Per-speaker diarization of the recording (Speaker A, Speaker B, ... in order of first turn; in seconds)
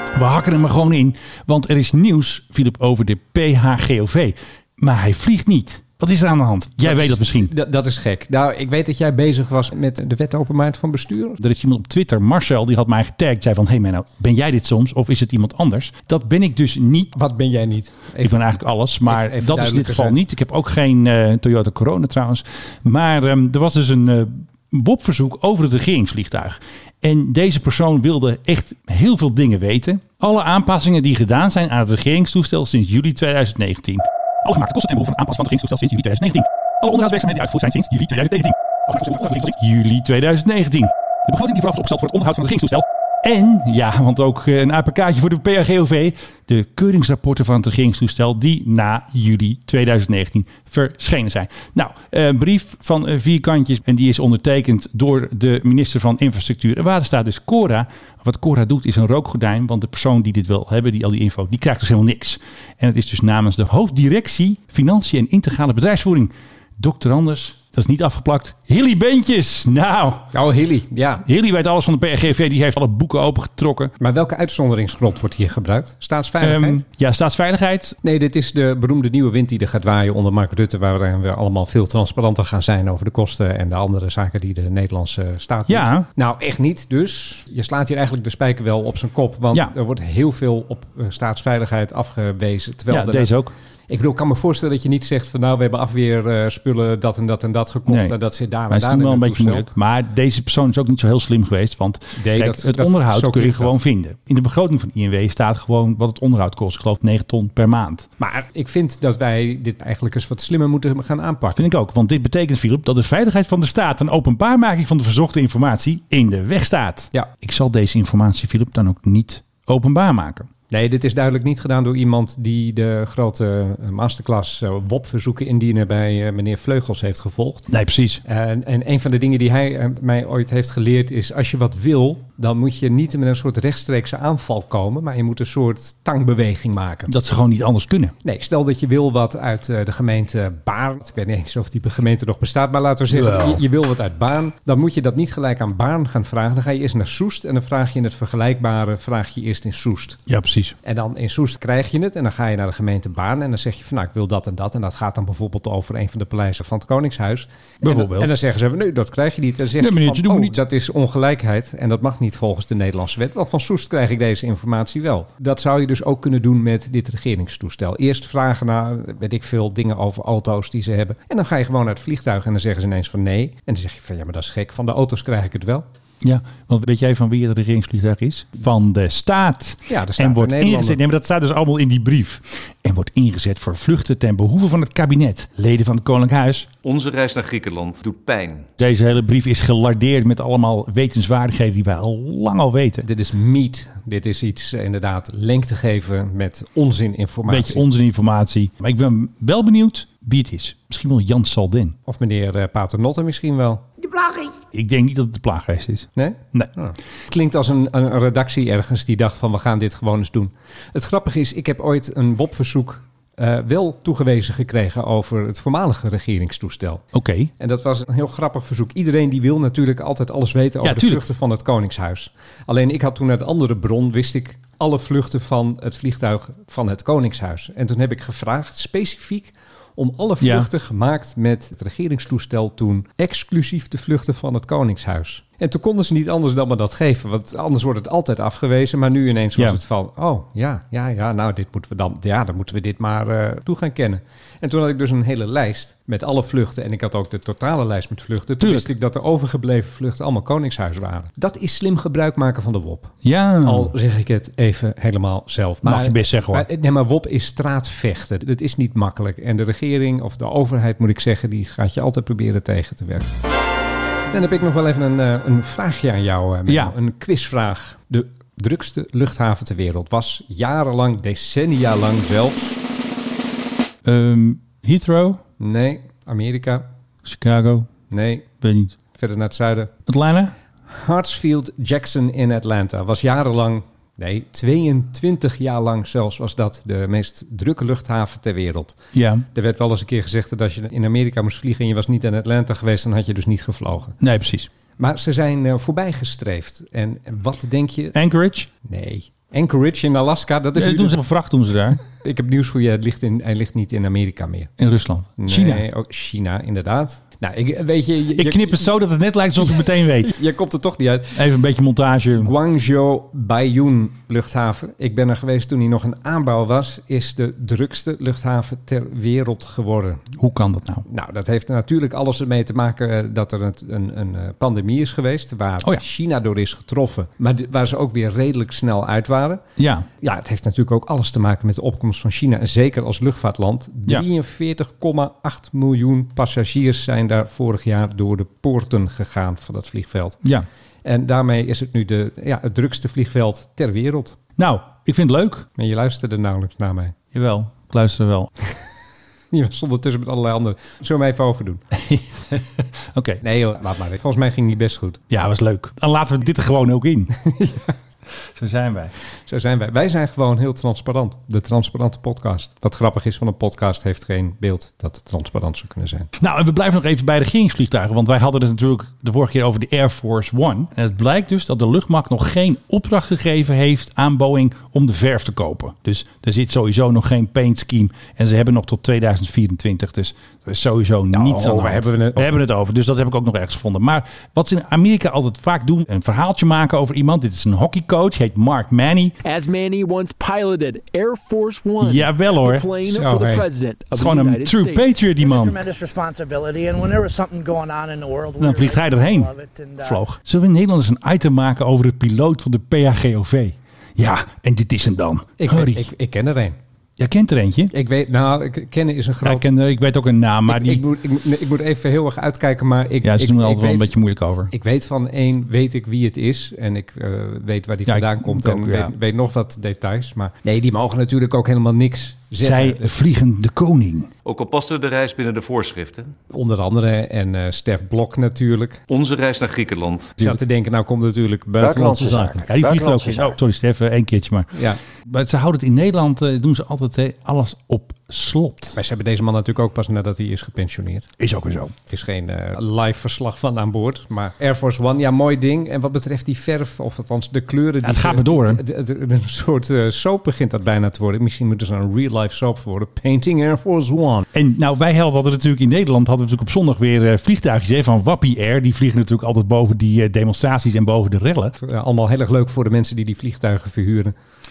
Speaker A: 0.1-7.5, 11.4-17.1, 18.2-70.3, 71.2-73.9, 76.4-78.0, 85.7-86.1, 92.9-93.5, 97.9-98.2, 98.7-108.1, 111.6-120.5, 127.7-128.2, 137.1-138.2, 143.1-143.6, 150.3-150.8, 157.8-158.3, 159.8-160.6, 176.2-186.7, 188.8-193.1, 197.5-202.0, 204.7-206.7, 217.1-217.5, 220.8-221.2, 230.4-230.7, 248.6-248.9, 253.2-253.9, 255.8-256.7, 266.7-266.9, 274.0-275.4, 277.2-277.9, 278.6-279.0, 280.1-280.5, 289.1-289.5, 294.2-294.7, 298.1-298.7, 300.8-302.0, 304.8-305.9, 308.4-310.4, 311.3-312.5, 320.4-321.1, 329.8-330.1, 344.6-345.7, 347.3-348.5, 351.9-353.4, 355.3-357.3, 358.4-359.1, 366.4-389.4, 392.0-392.9, 394.1-395.8, 398.6-406.1, 407.2-407.9, 409.4-411.1, 413.2-414.7, 418.1-419.1, 422.6-424.3, 431.8-439.0, 441.4-441.9, 448.0-448.8, 454.5-461.8
Speaker B: 6.8-11.4, 17.1-18.4, 19.1-20.2, 70.3-71.2, 74.0-76.8, 78.0-93.3, 93.9-99.7, 102.1-103.8, 108.2-111.7, 120.7-127.7, 128.2-137.1, 138.2-150.2, 150.8-175.8, 179.9-181.0, 193.0-197.8, 202.1-203.8, 206.2-217.0, 217.6-263.3, 264.3-272.8, 275.6-276.9, 278.1-278.4, 279.1-279.9, 280.9-289.0, 289.5-294.2, 295.0-298.1, 298.8-301.2, 302.1-304.7, 305.4-308.9, 310.2-311.4, 312.4-320.3, 321.1-329.6, 330.2-340.4, 341.1-344.4, 345.8-347.1, 349.5-351.8, 353.4-355.2, 357.4-357.9, 359.5-366.3, 381.3-382.6, 393.0-393.7, 405.6-406.8, 407.9-409.7, 410.7-414.1, 414.7-423.2, 426.5-429.0, 430.4-433.5, 434.7-435.0, 438.9-441.3, 442.1-454.5, 461.8-464.3
Speaker C: 186.8-188.7, 424.4-426.4, 429.1-430.4
Speaker D: 389.4-395.1
Speaker E: 395.4-400.2